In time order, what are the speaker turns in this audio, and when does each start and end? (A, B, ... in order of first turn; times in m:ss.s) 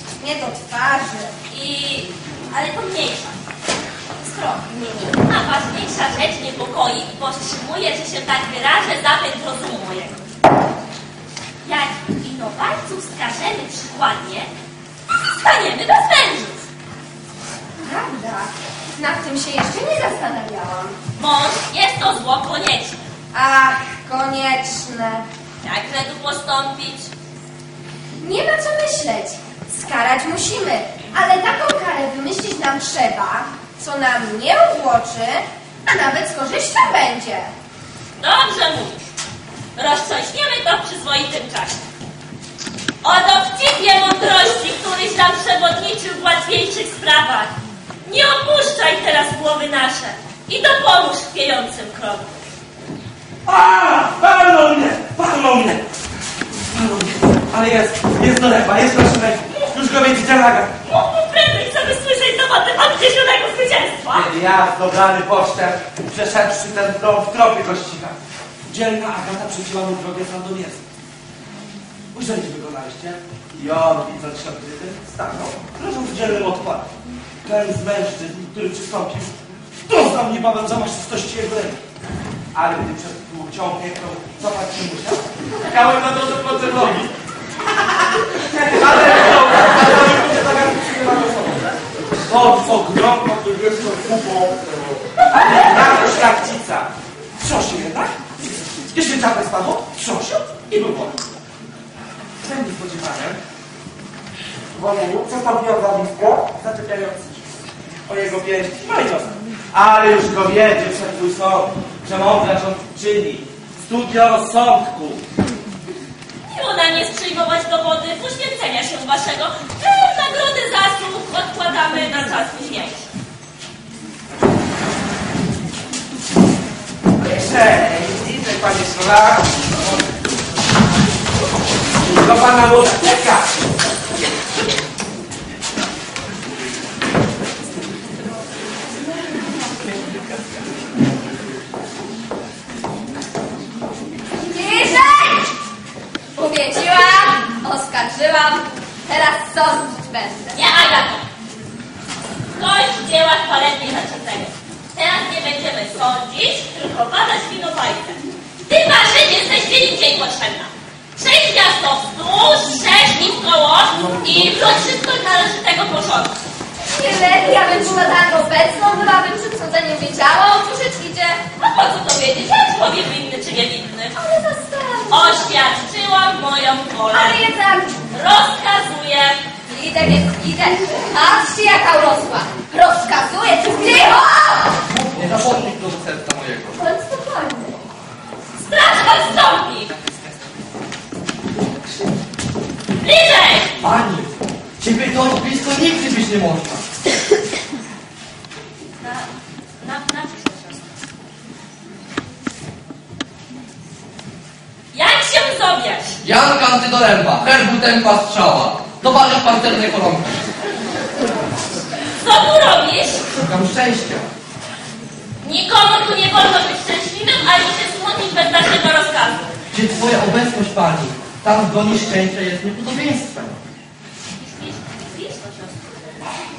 0:00.2-0:01.3 A
0:01.5-0:03.4 B
0:04.2-0:05.0 A
0:05.1-0:10.2 B
0:11.6-0:14.5 B
0:15.4-0:16.6 B
0:17.8-0:20.9 A
0:21.2-0:23.0 B
0:23.3-0:25.2 A
0:25.6-0:27.1 B
0:28.2-0:37.5 A
0:38.2-0:39.1 B
0:39.8-0:41.8 B
0:43.0-0:47.5 B
0:48.0-0:52.4 B
0:53.4-0:55.8 C
0:56.7-1:00.8 C
1:00.8-1:04.3 B
1:04.1-1:10.8 C
1:12.1-1:16.9 C
1:17.4-1:19.4 C
1:19.9-1:21.8 C
1:22.5-1:27.0 C
1:28.3-1:31.6 C
1:32.2-1:38.2 C
1:38.9-1:41.2 C
1:42.4-1:43.4 C
1:44.7-1:47.2 C
1:48.1-1:55.2 C
1:56.5-2:03.1 B
2:07.2-2:09.7 C
2:12.0-2:13.5 C
2:24.4-2:25.5 A
2:26.4-2:30.6 A
2:30.5-2:31.2 B
2:32.6-2:46.3 B
2:46.9-2:51.4 A
2:51.6-2:54.1 B
2:54.2-2:55.3 A
2:55.1-2:57.4 B
2:57.1-2:58.0 A
2:58.1-2:59.4 B
2:59.7-3:04.8 A
3:04.9-3:06.8 D
3:06.8-3:07.8 A
3:08.6-3:09.9 B
3:13.0-3:13.7 B
3:13.8-3:16.8 D
3:19.0-3:20.9 B
3:24.9-3:26.2 B
3:26.2-3:30.4 D
3:32.2-3:33.2 B
3:33.3-3:34.3 D
3:35.4-3:39.4 B
3:39.7-3:43.6 D
3:44.3-3:45.8 B